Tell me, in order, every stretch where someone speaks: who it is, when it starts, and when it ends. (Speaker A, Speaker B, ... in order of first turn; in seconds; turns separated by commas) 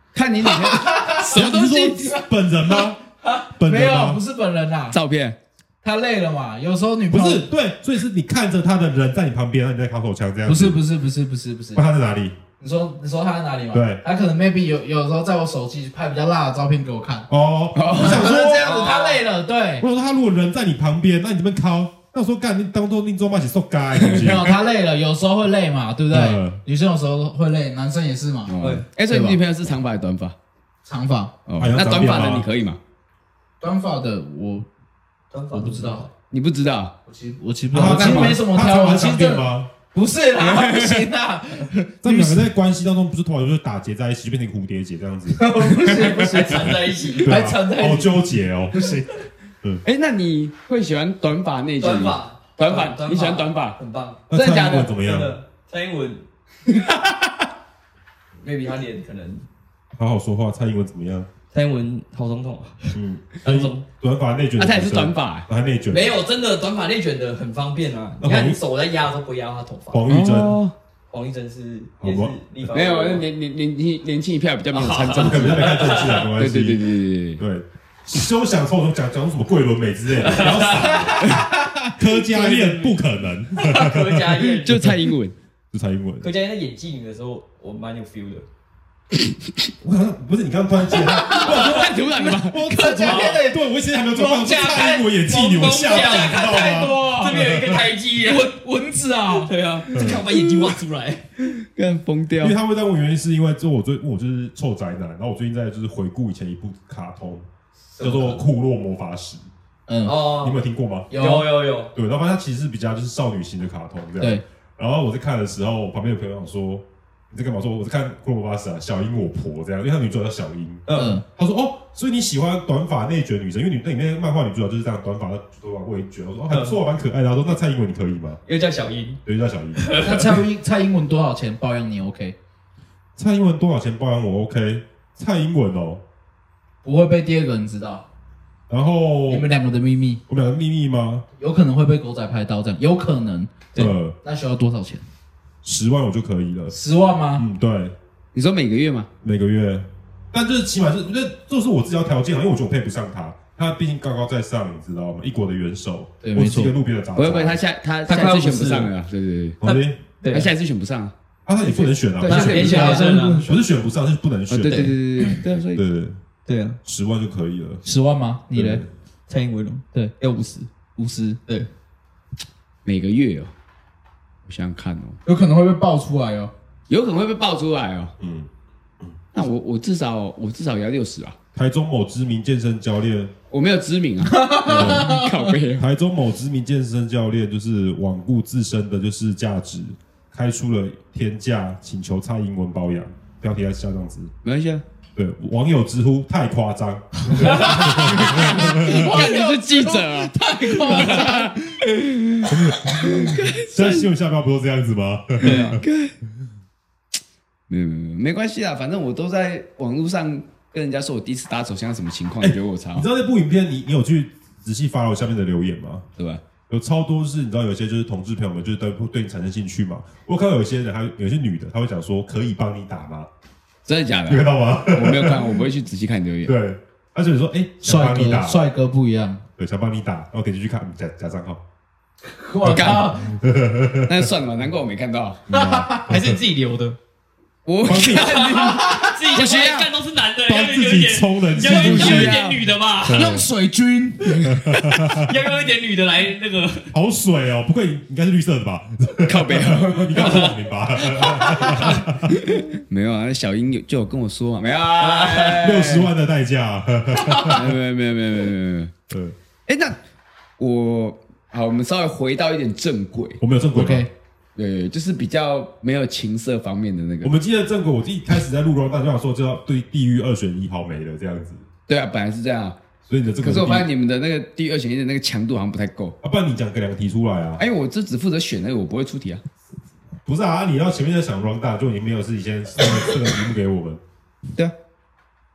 Speaker A: 0.1-2.1, Speaker B: 0.4-5.0, Speaker C: 1.3-3.0, Speaker C: 3.5-4.2, Speaker A: 4.9-5.4, Speaker B: 5.8-7.5, Speaker C: 7.1-10.8, Speaker B: 10.4-11.8, Speaker C: 11.7-12.3, Speaker B: 12.6-17.3, Speaker C: 13.7-14.0, Speaker C: 17.3-18.9, Speaker A: 17.7-18.3, Speaker B: 17.9-19.9, Speaker D: 18.5-19.2, Speaker C: 19.8-24.5, Speaker A: 24.1-24.3, Speaker B: 24.1-28.5, Speaker C: 26.1-26.6, Speaker A: 28.4-30.3, Speaker D: 28.6-28.8, Speaker B: 29.1-29.4, Speaker B: 30.8-31.3, Speaker A: 31.5-32.8, Speaker C: 31.6-32.5, Speaker B: 33.6-34.7, Speaker D: 35.3-36.1, Speaker B: 35.5-36.0, Speaker A: 36.3-36.9, Speaker B: 37.0-42.5, Speaker C: 37.7-39.7, Speaker A: 37.7-38.4, Speaker A: 40.4-41.1, Speaker C: 42.0-46.1, Speaker B: 45.3-49.2, Speaker D: 45.8-47.3, Speaker C: 46.6-48.9, Speaker A: 49.8-53.8, Speaker D: 51.8-54.2, Speaker C: 54.3-55.3, Speaker A: 54.3-54.9, Speaker D: 54.9-56.2, Speaker A: 56.7-57.3, Speaker D: 58.4-59.4, Speaker C: 59.9-61.3, Speaker D: 61.5-63.8, Speaker C: 62.9-66.2, Speaker A: 64.6-65.5, Speaker D: 65.9-70.0, Speaker C: 68.2-68.6, Speaker C: 69.9-70.6, Speaker A: 70.1-70.7, Speaker D: 71.1-73.3, Speaker C: 72.0-72.3, Speaker A: 72.7-77.4, Speaker D: 74.7-76.3, Speaker C: 75.1-81.4, Speaker D: 80.2-81.3, Speaker B: 81.1-81.9, Speaker C: 82.0-84.9, Speaker D: 82.2-83.0, Speaker D: 83.6-85.0, Speaker A: 84.6-85.3, Speaker C: 85.7-86.3, Speaker D: 86.2-88.4, Speaker C: 89.8-97.9, Speaker B: 91.0-95.1, Speaker A: 91.4-92.6, Speaker D: 91.4-91.7, Speaker D: 93.0-93.4, Speaker D: 94.3-98.5, Speaker B: 95.8-97.6, Speaker B: 98.2-99.5, Speaker D: 99.3-101.2, Speaker C: 99.9-100.2, Speaker A: 100.0-100.8, Speaker A: 101.4-102.6, Speaker C: 102.4-107.5, Speaker B: 108.0-108.4, Speaker C: 108.0-109.5, Speaker B: 109.9-110.2, Speaker D: 110.0-110.6, Speaker C: 110.3-111.1, Speaker B: 111.1-111.5, Speaker D: 111.1-111.9, Speaker C: 111.9-128.4, Speaker D: 120.9-121.2, Speaker B: 120.9-121.2, Speaker D: 126.5-126.8, Speaker D: 128.4-129.2, Speaker C: 129.2-130.2, Speaker D: 129.7-130.4, Speaker B: 130.0-132.3, Speaker C: 133.2-136.0, Speaker B: 136.8-138.0, Speaker C: 138.7-139.5, Speaker B: 139.3-140.2, Speaker C: 140.3-141.2, Speaker B: 141.4-145.0, Speaker C: 143.7-144.1, Speaker C: 145.6-146.8, Speaker B: 146.7-147.4, Speaker C: 147.3-147.9, Speaker A: 148.3-149.1, Speaker C: 149.2-157.6, Speaker B: 156.2-156.7, Speaker A: 157.2-159.6, Speaker D: 158.0-158.9, Speaker C: 159.6-160.0, Speaker D: 159.6-160.5, Speaker A: 160.3-163.2, Speaker C: 161.4-164.9, Speaker D: 162.2-163.4, Speaker B: 162.4-163.6, Speaker A: 164.5-165.8, Speaker D: 164.6-165.0, Speaker C: 165.7-166.2, Speaker D: 166.4-166.8, Speaker C: 166.8-167.8, Speaker B: 167.8-168.8, Speaker C: 168.5-168.9, Speaker D: 169.3-170.7, Speaker B: 170.9-171.4, Speaker A: 172.8-173.5, Speaker A: 174.4-175.2, Speaker B: 175.2-176.5, Speaker A: 176.9-178.1, Speaker C: 178.2-178.5, Speaker A: 179.3-181.4, Speaker C: 181.5-183.3, Speaker A: 183.5-185.8, Speaker B: 184.2-185.5, Speaker C: 184.7-185.1, Speaker C: 185.8-194.3, Speaker A: 194.4-194.8, Speaker C: 195.1-199.1, Speaker D: 197.3-197.8, Speaker B: 197.5-201.6, Speaker A: 197.8-204.1, Speaker D: 201.0-201.2, Speaker C: 202.4-205.8, Speaker D: 205.4-205.8, Speaker A: 205.4-206.1, Speaker A: 207.7-213.1, Speaker C: 212.4-216.1, Speaker C: 216.7-223.3, Speaker A: 223.8-226.5, Speaker C: 224.3-225.6, Speaker C: 226.4-228.6, Speaker B: 227.8-229.4, Speaker C: 229.6-231.6, Speaker B: 232.2-233.3, Speaker C: 232.6-234.3, Speaker A: 232.7-233.1, Speaker A: 234.1-235.4, Speaker C: 235.5-236.4, Speaker B: 235.5-236.1, Speaker D: 236.1-237.0, Speaker A: 237.6-239.9, Speaker C: 237.8-238.4, Speaker D: 238.0-243.2, Speaker B: 238.6-239.3, Speaker C: 240.4-242.4, Speaker A: 241.6-242.6, Speaker C: 243.0-243.5, Speaker B: 243.1-244.5, Speaker C: 244.4-245.3, Speaker D: 245.1-246.9, Speaker C: 246.9-252.4, Speaker A: 249.2-250.5, Speaker D: 250.2-250.6, Speaker A: 252.3-256.1, Speaker D: 254.9-255.7, Speaker C: 255.6-257.7, Speaker B: 257.2-257.6, Speaker A: 257.5-258.9, Speaker C: 259.1-259.4, Speaker A: 259.6-260.0, Speaker A: 260.6-263.4, Speaker C: 263.4-264.1, Speaker B: 263.7-264.1, Speaker A: 264.6-267.3, Speaker C: 267.2-271.6, Speaker A: 271.9-272.8, Speaker C: 273.1-273.9, Speaker A: 273.4-276.1, Speaker C: 276.2-277.6, Speaker A: 277.6-279.4, Speaker C: 280.2-284.0